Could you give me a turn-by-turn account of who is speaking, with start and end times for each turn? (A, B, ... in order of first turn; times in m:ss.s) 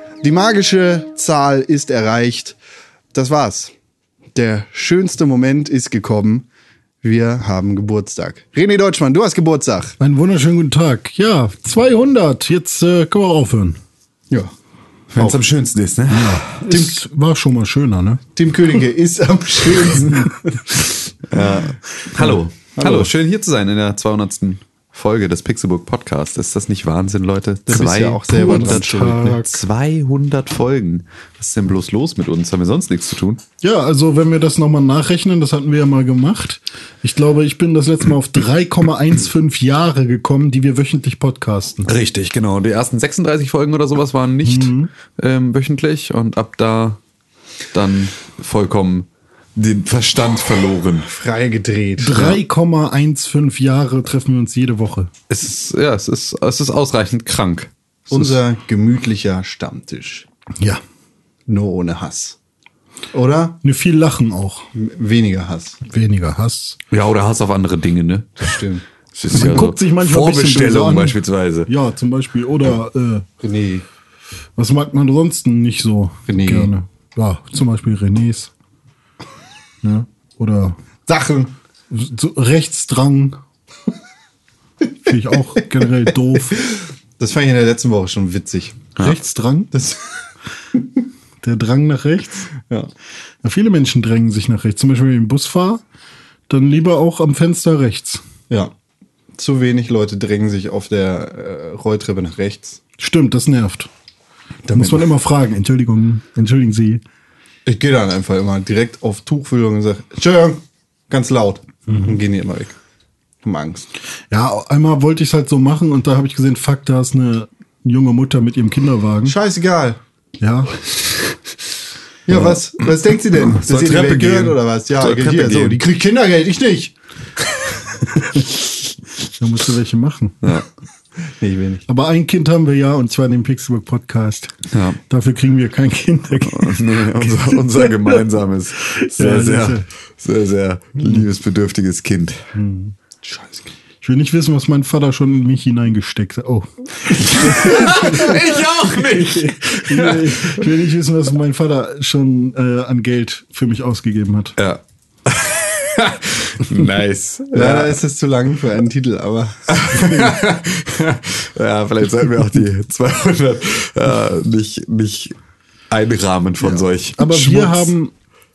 0:00.2-0:02.6 A
0:03.1-0:03.7 A
0:04.3-0:06.4 A
0:07.0-0:09.9 A
0:10.0-0:13.8 B
0:15.1-0:15.4 A
0:15.2-0:16.5 C
0:16.1-0:18.2 B
0:16.7-0:17.0 A
0:18.3-0:20.8 A
0:21.3-0:33.4 C
0:22.1-0:23.1 A
0:27.7-0:29.5 A
0:28.3-0:29.5 B
0:33.6-0:41.9 B
0:41.8-0:47.0 C
0:44.4-0:44.9 B
0:47.7-0:51.1 C
0:51.1-0:52.4 A
0:52.0-0:55.1 B
0:55.3-0:57.7 C
0:58.1-1:00.2 A
1:01.5-1:02.4 A
1:03.1-1:03.6 A
1:03.6-1:04.7 B
1:04.7-1:05.8 A
1:05.8-1:06.8 B
1:06.9-1:08.6 C
1:08.4-1:08.8 A
1:09.1-1:11.7 C
1:09.3-1:13.2 B
1:13.4-1:13.8 A
1:14.6-1:18.5 B
1:16.3-1:16.7 A
1:19.8-1:20.8 B
1:21.1-1:21.5 A
1:21.9-1:23.4 B
1:25.0-1:26.6 B
1:26.5-1:28.9 A
1:29.0-1:29.7 B
1:29.7-1:30.0 A
1:31.4-1:32.5 B
1:33.4-1:35.8 B
1:36.5-1:38.2 B
1:39.4-1:42.8 A
1:43.0-1:43.9 B
1:44.6-1:45.1 A
1:44.7-1:47.0 B
1:47.6-1:52.7 A
1:51.9-1:52.2 B
1:53.4-1:53.9 A
1:54.3-1:59.3 B
1:59.2-2:00.0 A
2:00.4-2:00.8 B
2:02.3-2:06.9 A
2:02.3-2:02.6 C
2:03.5-2:04.5 B
2:03.9-2:04.3 C
2:05.0-2:05.8 C
2:09.4-2:10.6 B
2:11.4-2:11.8 A
2:11.9-2:14.5 B
2:14.7-2:15.0 C
2:15.1-2:18.2 B
2:16.5-2:22.5 C
2:18.8-2:19.8 B
2:22.5-2:22.9 B
2:23.2-2:23.7 A
2:24.0-2:34.6 B
2:27.4-2:30.7 C
2:34.6-2:38.0 C
2:37.5-2:40.4 A
2:39.7-2:45.3 C
2:45.9-2:47.9 C
2:46.6-2:48.1 B